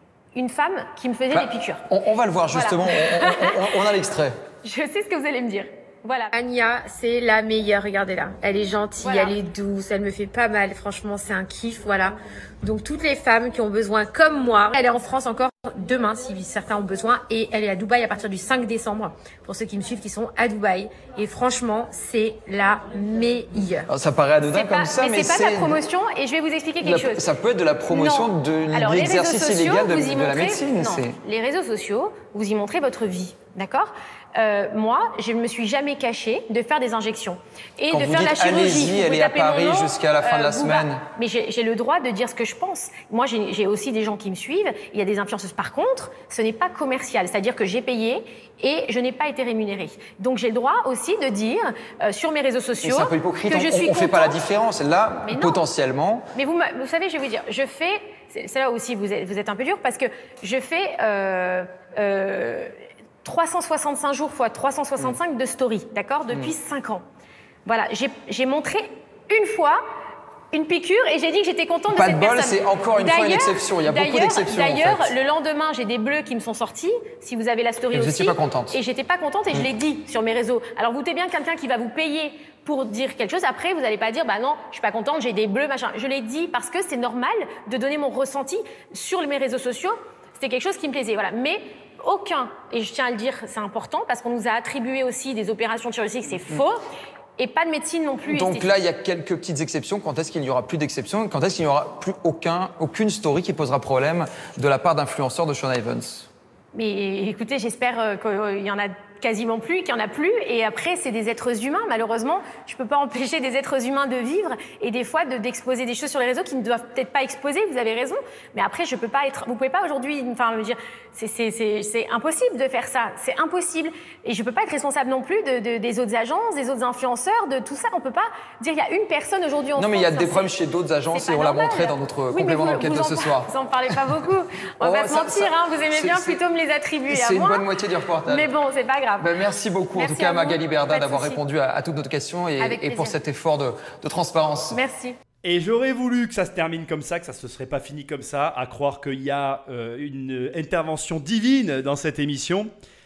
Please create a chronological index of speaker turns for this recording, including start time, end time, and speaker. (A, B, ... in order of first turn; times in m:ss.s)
0:00.4-0:01.8 A
0:01.3-0:04.4 B
0:02.5-0:03.9 A
0:04.6-0:23.9 A
0:23.9-0:25.8 B
0:24.5-0:27.2 A
0:26.8-0:31.2 B
0:27.9-0:54.4 A
0:37.9-0:41.0 B
0:52.8-0:56.2 B
0:55.3-0:55.6 A
0:56.4-1:07.0 A
1:07.6-1:09.8 A
1:10.5-1:36.8 A
1:11.9-1:15.2 B
1:17.9-1:18.8 B
1:37.4-1:38.8 A
1:38.3-1:46.3 B
1:46.7-2:10.5 A
2:09.8-2:14.2 B
2:11.1-2:17.7 A
2:14.8-2:16.4 B
2:17.1-2:18.5 B
2:18.3-2:19.3 A
2:19.2-2:24.8 B
2:19.9-2:21.4 A
2:22.6-2:23.2 A
2:24.7-2:25.2 A
2:25.4-2:32.7 C